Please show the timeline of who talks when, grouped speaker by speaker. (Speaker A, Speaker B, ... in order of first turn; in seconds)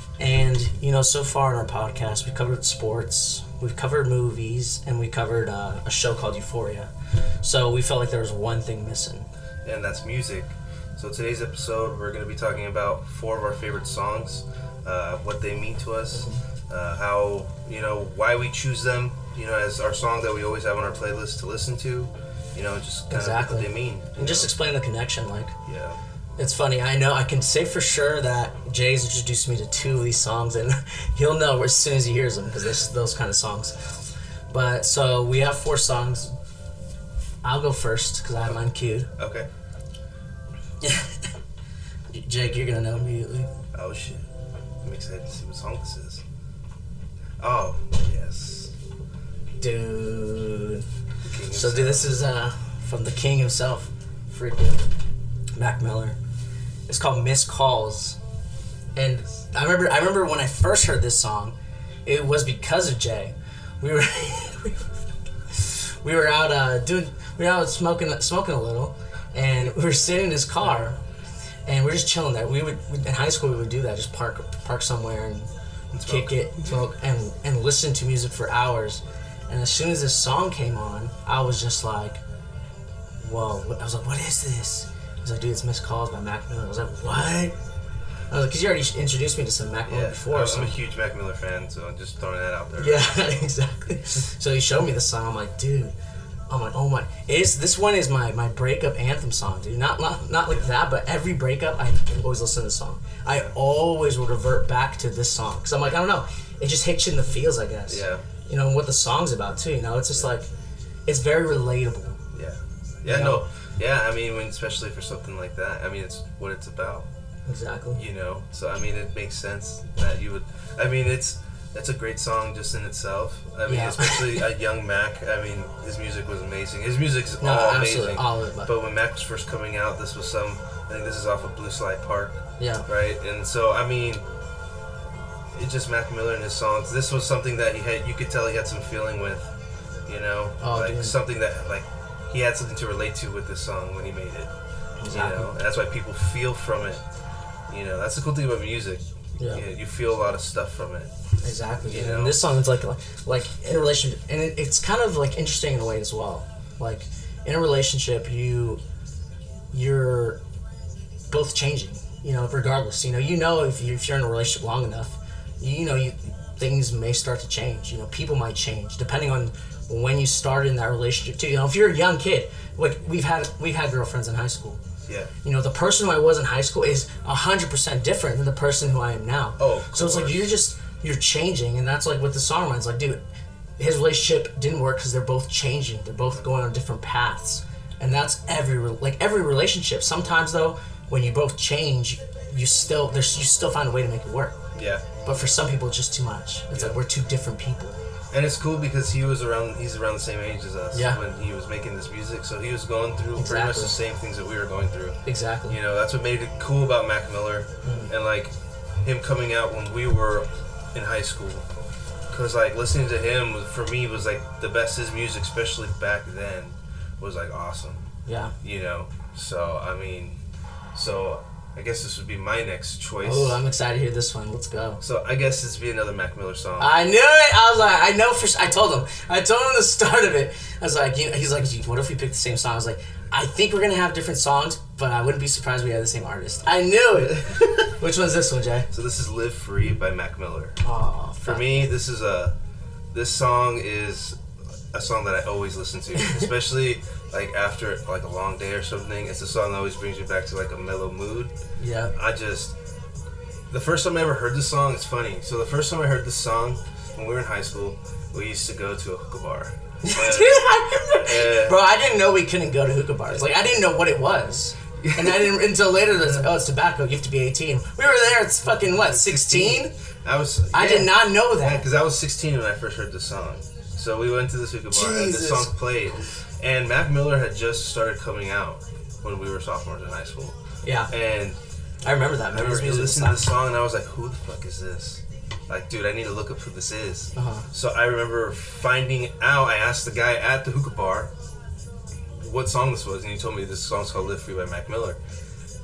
Speaker A: 0.2-6.9, 7.4-9.3, 16.1-16.4, 23.1-25.6, 26.4-33.9, 34.5-36.4, 37.4-39.1, 40.8-41.2, 42.1-43.5, 49.6-50.9, 51.5-54.9, 55.5-56.2, 56.9-58.2, 59.0-61.5, 62.1-65.0, 65.5-71.0, 71.7-75.5, 76.0-82.2, 83.2-87.5, 88.3-90.8, 92.8-95.9, 96.5-110.5, 111.1-112.2, 113.1-113.4, 117.5-118.0, 123.7-124.4, 127.4-128.7, 132.6-132.9, 140.6-141.2, 145.0-145.5, 149.4-149.6, 151.4-158.8, 159.7-160.4, 161.3-174.8, 175.4-183.2, 183.8-194.6, 195.2-198.0, 200.9-201.2, 203.4-204.0, 205.2-205.8, 207.8-208.1, 218.3-218.5, 223.2-225.0, 226.8-238.9, 240.8-241.9, 246.2-246.5, 251.8-252.1, 260.0-269.9, 270.7-271.9, 274.9-275.7, 280.8-281.1, 282.1-283.5, 287.4-287.7
Speaker B: 9.6-24.5, 25.7-26.0, 39.2-39.5, 43.7-44.3, 44.8-46.2, 47.4-48.7, 51.2-52.1, 75.9-76.7, 89.9-93.4, 107.9-108.2, 112.3-117.1, 118.0-134.2, 135.5-139.5, 140.1-144.5, 145.1-147.0, 147.7-151.1, 151.8-152.5, 179.6-180.5, 194.7-195.3, 198.3-211.7, 212.3-218.1, 218.6-220.4, 220.9-223.6, 225.0-226.9, 237.2-237.9, 238.9-240.8, 241.4-242.5, 243.1-244.4, 244.9-251.5, 252.2-252.8, 253.7-261.8, 265.0-265.6, 266.2-266.4, 268.9-280.6, 281.1-281.6, 282.5-291.3, 292.4-295.2